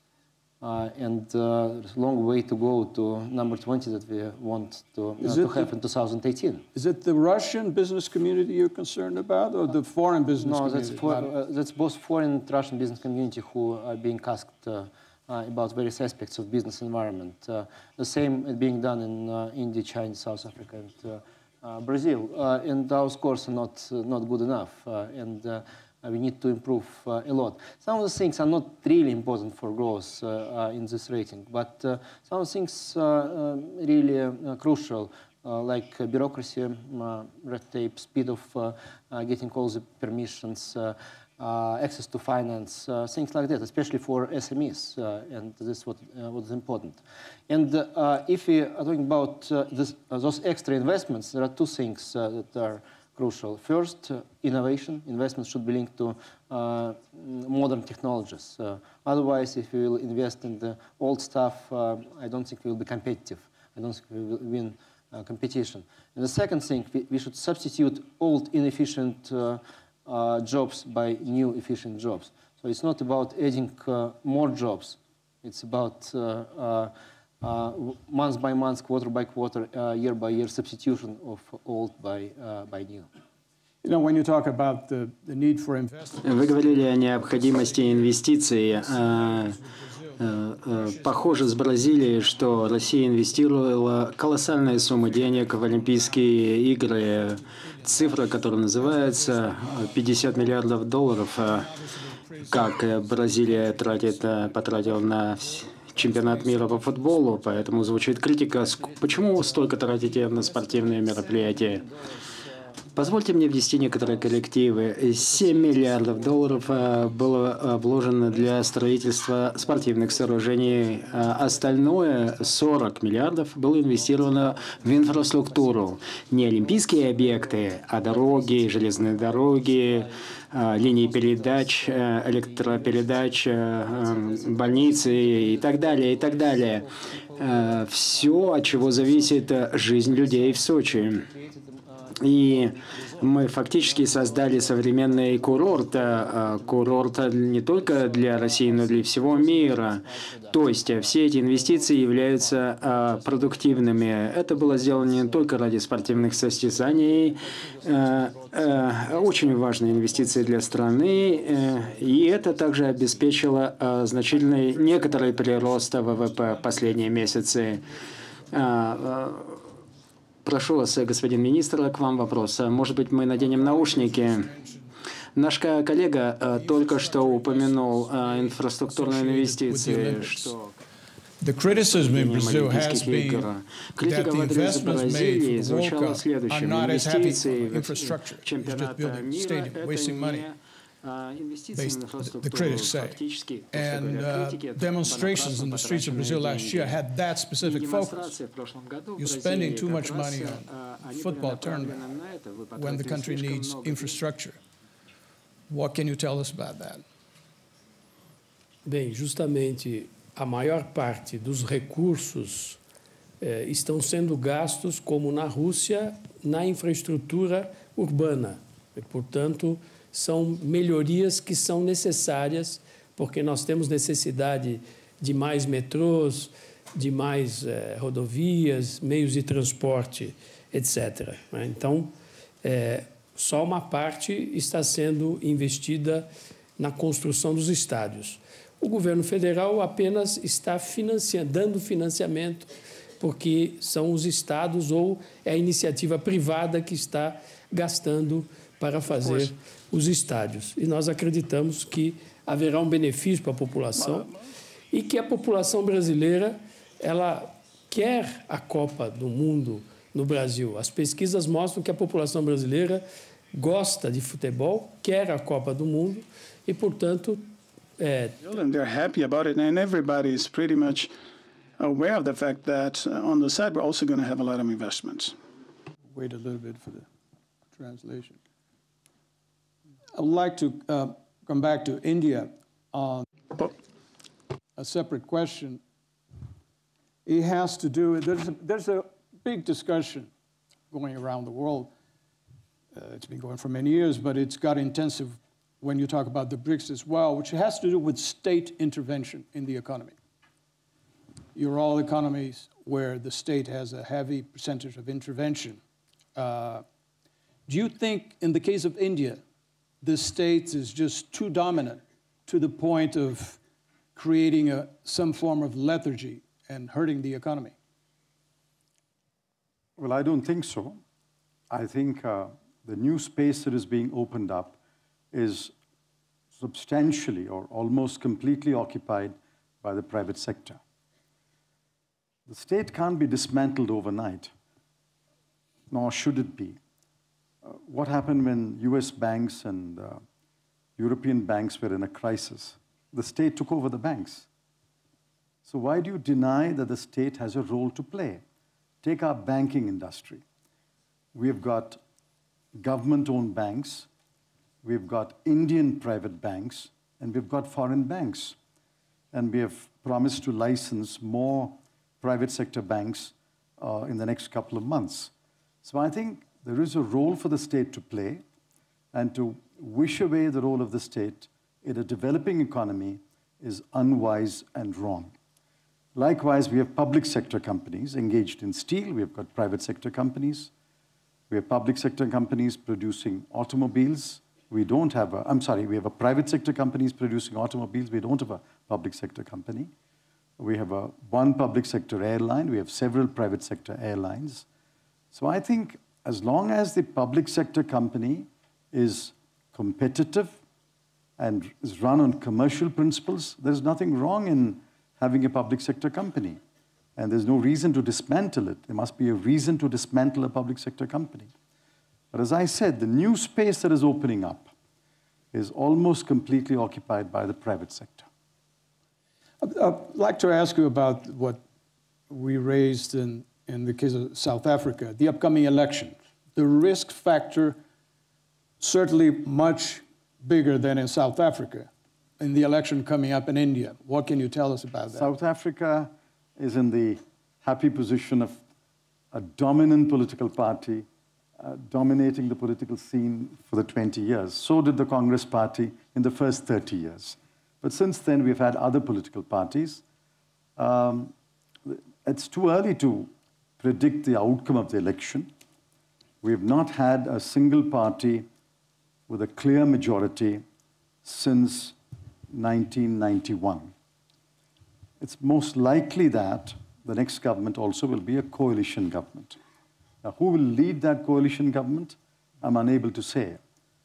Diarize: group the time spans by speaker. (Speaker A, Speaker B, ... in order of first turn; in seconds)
Speaker A: 0.6-6.6, 10.4-83.1, 113.8-117.8, 118.3-118.7, 119.4-122.7, 123.9-164.4
Speaker B: 5.2-5.7, 6.7-11.3, 83.8-92.8, 94.5-112.5, 164.3-168.7, 173.1-175.0, 176.4-180.6, 181.4-190.5, 191.7-198.4, 199.2-202.0, 202.7-204.6, 205.7-207.0, 276.1-277.1, 277.7-278.4, 280.1-283.3, 284.8-285.8, 287.2-290.3, 290.9-291.9, 292.9-300.1, 301.5-305.8, 306.4-306.8, 307.7-309.4, 310.0-313.6, 314.1-317.7, 419.6-421.6, 422.3-427.8, 428.8-431.9, 432.4-435.3
Speaker C: 86.2-89.6, 90.2-101.7, 102.5-111.8, 112.9-141.2, 142.2-167.8, 168.5-169.6, 170.4-174.5, 175.3-180.8, 181.7-197.0, 197.6-204.2
Speaker D: 208.8-212.8, 213.4-232.1, 232.6-236.3, 236.8-254.3, 254.9-263.0, 263.5-268.4
Speaker E: 268.4-271.1, 271.8-275.4
Speaker F: 320.0-321.0, 321.7-324.8, 325.3-325.7, 326.6-330.8, 332.5-334.5, 335.9-336.8, 337.6-340.2, 341.0-344.5, 345.6-348.4, 349.0-350.4, 351.3-352.0, 352.7-354.1, 354.8-358.6, 359.3-365.3, 365.8-368.4, 369.1-375.3, 376.1-380.7, 381.5-389.9, 390.6-394.6, 395.3-400.6, 401.4-406.6, 407.1-411.5, 412.3-414.7, 415.5-418.3, 435.1-438.6, 439.3-441.1, 441.6-450.0, 450.8-451.3, 451.8-455.5, 456.4-458.5, 459.3-460.6, 461.2-462.0, 462.5-463.9, 465.2-469.6, 470.2-473.6